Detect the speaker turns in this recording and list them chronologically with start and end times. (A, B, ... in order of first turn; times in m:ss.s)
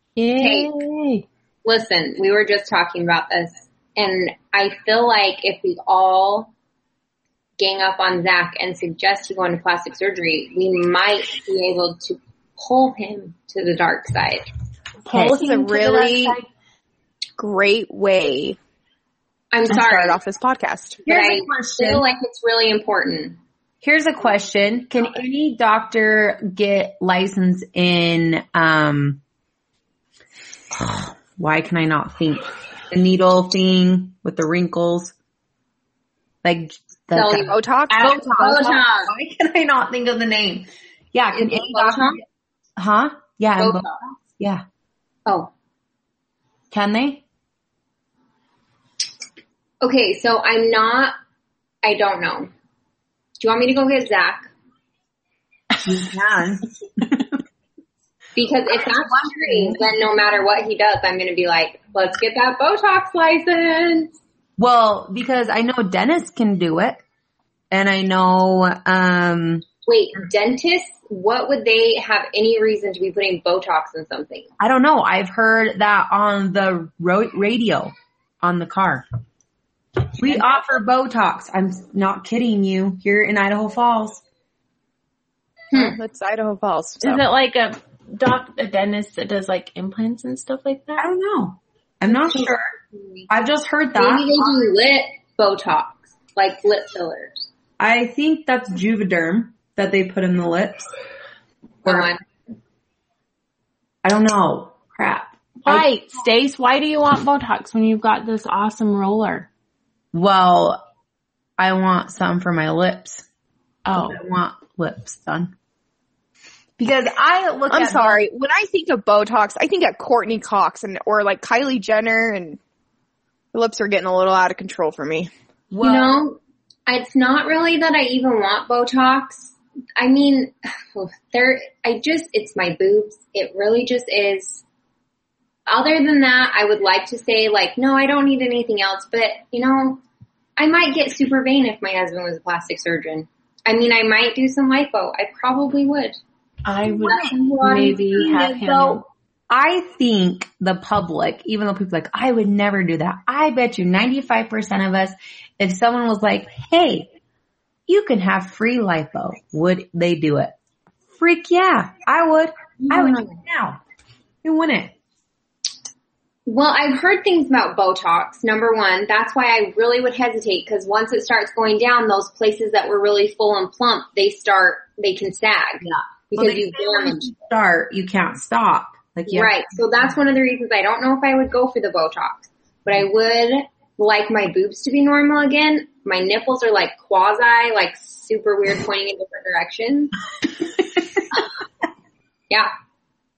0:00.2-0:01.2 A
0:00.4-0:00.7 B
0:01.6-0:06.5 B
0:07.6-0:14.4 B
0:15.1-0:16.5 A
0:15.1-0:15.4 C
0:15.3-0:16.4 D
0:17.4-0:18.6 D
0:19.5-0:20.2 B
0:19.7-0:21.0 D
0:21.0-0:22.0 C
0:21.1-0:23.4 B
0:23.8-0:29.2 C
0:30.7-0:35.2 C
0:36.4-0:42.2 C
0:37.1-0:39.1 B
0:37.5-0:38.3 D
0:41.3-0:42.2 B
0:42.8-0:43.8 C
0:43.6-0:44.1 B
0:45.3-0:45.5 B
0:46.7-0:47.2 C
0:49.8-0:51.2 B
0:51.8-0:52.5 B
0:53.4-0:54.5 B
0:55.8-0:57.4 C
0:58.4-1:04.1 B
0:58.7-1:00.0 C
1:04.6-1:07.0 C
1:07.7-1:09.6 C
1:09.9-1:14.5 B
1:14.6-1:19.0 C
1:20.2-1:24.2 C
1:25.7-1:27.2 D
1:27.0-1:31.1 A
1:31.0-1:32.7 C
1:32.2-1:33.3 B
1:33.3-1:34.3 C
1:34.0-1:37.4 B
1:37.8-1:40.9 C
1:41.8-1:42.1 C
1:41.8-1:42.2 B
1:44.0-1:45.9 C
1:45.6-1:49.5 A
1:50.1-1:50.8 C
1:51.6-1:53.3 C
1:53.9-1:54.2 A
1:53.9-1:55.5 C
1:56.8-1:58.2 C
1:57.7-2:02.6 D
2:03.5-2:05.3 D
2:05.7-2:06.2 C
2:05.8-2:14.6 B
2:15.7-2:20.0 B
2:20.6-2:26.2 B
2:26.7-2:29.1 A
2:27.0-2:37.1 C
2:27.1-2:28.0 B
2:37.9-2:40.5 C
2:41.2-2:43.8 C
2:42.9-2:43.4 B
2:44.4-2:44.9 C
2:46.5-2:57.3 B
2:55.9-2:59.6 C
2:59.3-3:10.2 B